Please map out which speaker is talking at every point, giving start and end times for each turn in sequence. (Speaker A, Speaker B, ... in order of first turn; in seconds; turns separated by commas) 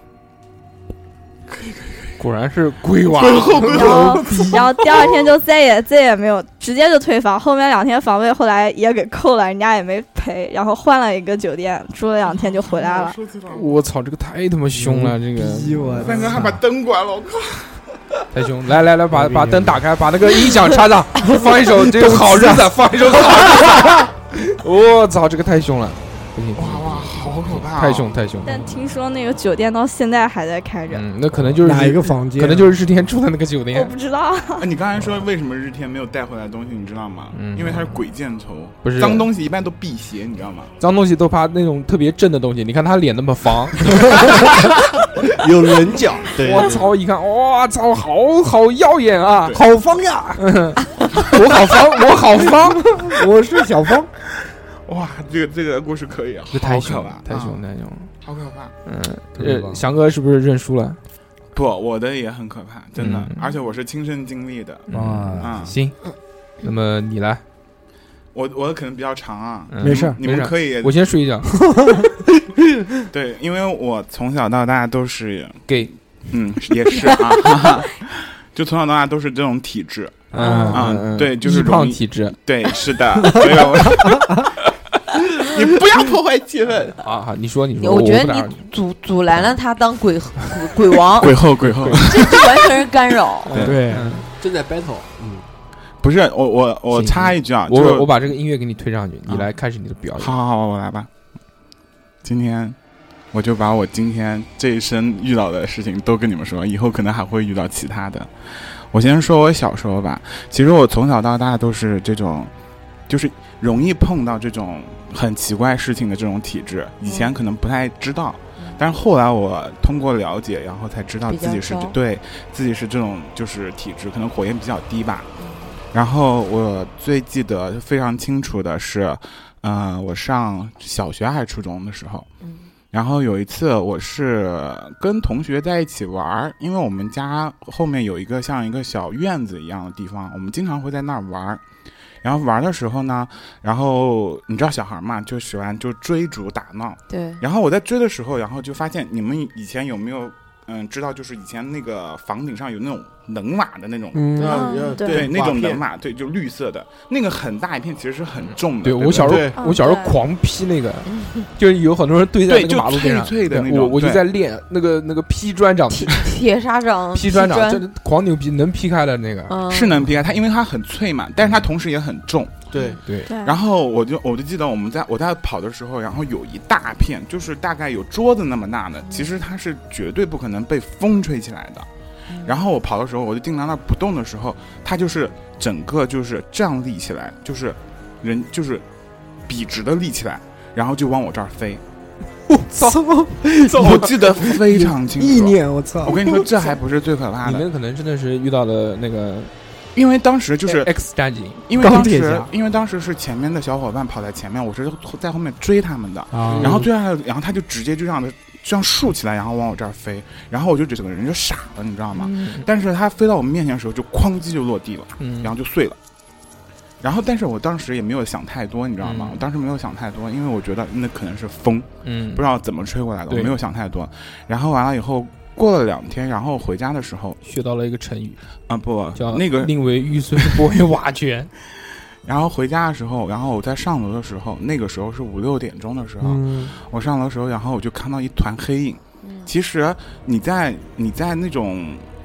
Speaker A: 1.5-2.2, Speaker B: 2.2-4.6, Speaker A: 3.0-5.3, Speaker C: 3.7-13.2, Speaker A: 12.6-13.7, Speaker B: 13.5-16.6, Speaker D: 14.7-16.5, Speaker A: 16.0-17.8, Speaker B: 18.3-28.8, Speaker D: 19.1-19.8, Speaker D: 21.2-22.7, Speaker D: 23.2-24.1, Speaker A: 26.6-28.1, Speaker C: 28.4-31.1, Speaker B: 30.9-33.9, Speaker D: 31.6-32.7, Speaker C: 33.7-34.7, Speaker A: 34.6-40.7, Speaker B: 37.3-38.0, Speaker B: 38.8-39.3, Speaker B: 40.8-44.2, Speaker E: 45.4-46.8, Speaker B: 46.4-49.6, Speaker A: 49.4-49.8, Speaker D: 49.5-50.4, Speaker B: 50.4-52.9, Speaker D: 52.6-54.1, Speaker A: 54.5-57.6, Speaker B: 56.5-58.1, Speaker A: 58.2-58.7, Speaker B: 58.9-61.0, Speaker D: 59.3-59.8, Speaker A: 61.5-64.8, Speaker B: 63.0-63.5, Speaker B: 64.9-66.0, Speaker D: 64.9-65.7, Speaker A: 65.4-65.7, Speaker B: 66.6-67.4, Speaker A: 68.3-71.1, Speaker B: 69.7-71.7, Speaker D: 69.8-70.2, Speaker A: 73.1-84.5, Speaker B: 75.7-75.9, Speaker B: 80.3-82.3, Speaker F: 80.3-80.8, Speaker D: 80.3-80.9, Speaker A: 85.3-87.0, Speaker B: 87.0-88.6, Speaker F: 87.8-91.4, Speaker A: 91.1-92.8, Speaker B: 91.6-92.1, Speaker F: 92.0-93.5, Speaker B: 93.4-94.2, Speaker A: 93.5-93.8, Speaker D: 93.6-94.2, Speaker E: 94.0-95.5, Speaker A: 96.0-98.1, Speaker B: 96.9-100.3, Speaker A: 100.2-101.1, Speaker A: 102.2-102.8, Speaker A: 103.3-112.5, Speaker A: 113.1-125.3, Speaker F: 117.0-117.3, Speaker F: 121.3-122.0, Speaker F: 125.4-125.7, Speaker A: 125.9-132.3, Speaker F: 132.4-132.7, Speaker A: 132.9-141.6, Speaker A: 142.2-154.4, Speaker F: 147.1-147.4, Speaker D: 154.1-154.6, Speaker E: 154.3-155.8, Speaker F: 154.4-155.0, Speaker C: 154.5-155.2, Speaker A: 155.1-159.5, Speaker B: 158.8-166.3, Speaker E: 159.2-159.6, Speaker C: 159.6-160.2, Speaker F: 161.1-161.4, Speaker A: 162.4-164.3, Speaker F: 166.0-167.8, Speaker B: 167.1-169.5, Speaker F: 169.5-170.0, Speaker A: 169.7-172.7, Speaker E: 172.7-173.0, Speaker F: 172.7-173.0, Speaker C: 173.3-173.6, Speaker A: 173.4-181.9, Speaker F: 182.3-182.6, Speaker A: 182.4-188.8, Speaker A: 189.5-191.8, Speaker B: 192.7-193.0, Speaker D: 192.7-196.5, Speaker A: 193.7-197.6, Speaker B: 197.4-199.5, Speaker A: 199.9-200.9, Speaker B: 200.7-201.6, Speaker A: 201.7-216.0, Speaker D: 201.7-202.5, Speaker D: 206.3-206.8, Speaker E: 206.5-206.9, Speaker B: 212.1-212.7, Speaker B: 215.2-215.5, Speaker A: 217.0-227.4, Speaker B: 219.0-219.4, Speaker B: 222.0-222.4, Speaker B: 223.3-223.6, Speaker B: 227.4-228.4, Speaker A: 228.7-229.7, Speaker B: 229.1-231.5, Speaker A: 230.3-230.6, Speaker A: 231.7-242.1, Speaker D: 236.2-236.7, Speaker F: 239.2-239.5